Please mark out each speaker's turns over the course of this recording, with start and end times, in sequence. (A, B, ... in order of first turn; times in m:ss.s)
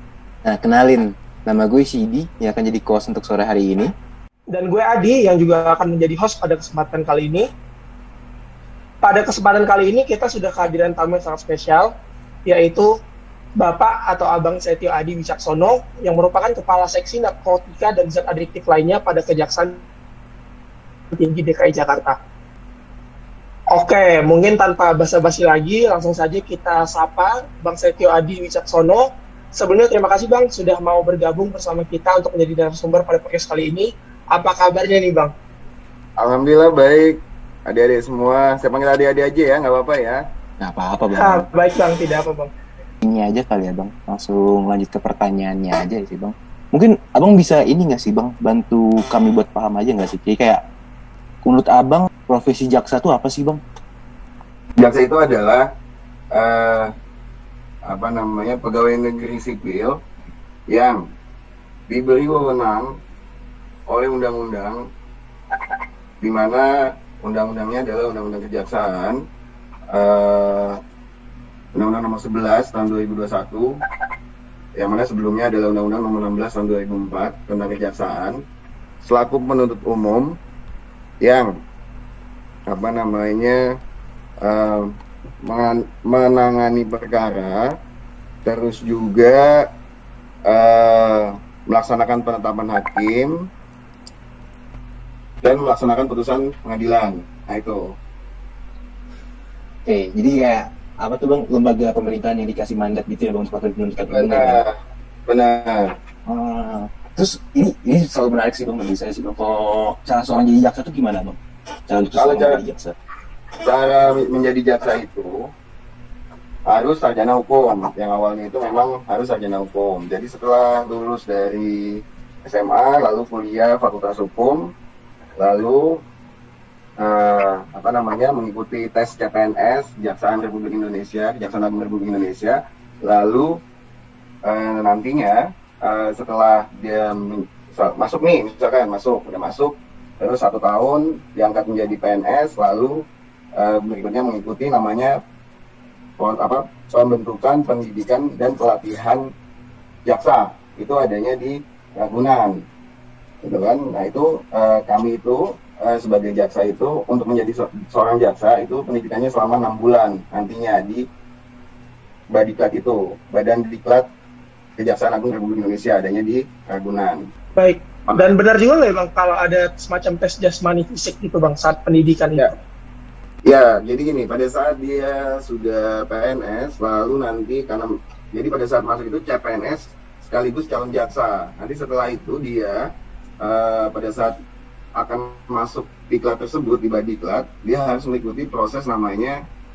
0:00.4-0:03.9 A
0:04.5-0:07.4 B
0:09.0-0:11.9 B
0:12.4-0:12.9 B
0:13.6-0:19.8 B
0:21.1-0:22.2 B
0:23.7-0:35.3 B
0:36.2-0:40.2 C
0:40.6-0:41.5 A
0:41.1-0:42.5 B
0:43.0-0:50.6 A
0:51.4-0:53.6 A
0:54.8-0:55.7 C
0:56.3-0:56.9 C
0:57.8-1:00.0 C
1:00.7-1:01.0 C
1:01.9-1:02.9 C
1:03.9-1:04.8 C
1:06.2-1:09.2 C
1:09.9-1:10.8 C
1:11.7-1:13.7 C
1:14.8-1:18.4 C
1:19.0-1:20.4 C
1:21.2-1:21.5 C
1:22.7-1:23.6 C
1:24.4-1:24.9 C
1:25.4-1:27.7 C
1:28.4-1:29.6 C
1:30.5-1:33.3 C
1:35.4-1:37.9 C
1:39.8-1:44.6 A
1:44.0-1:44.7 C
1:45.3-1:45.9 C
1:46.2-1:51.4 A
1:51.9-1:52.9 A
1:52.1-1:52.6 C
1:53.6-1:55.5 C
1:56.7-2:04.7 C
2:05.4-2:06.0 C
2:07.0-2:13.6 C
2:14.4-2:23.0 C
2:23.6-2:25.1 C
2:26.2-2:29.2 C
2:30.1-2:32.6 C
2:33.4-2:41.0 C
2:42.3-2:44.0 C
2:44.8-2:47.2 C
2:47.6-2:52.5 B
2:53.4-3:02.8 C
3:03.4-3:04.3 C
3:05.0-3:09.4 C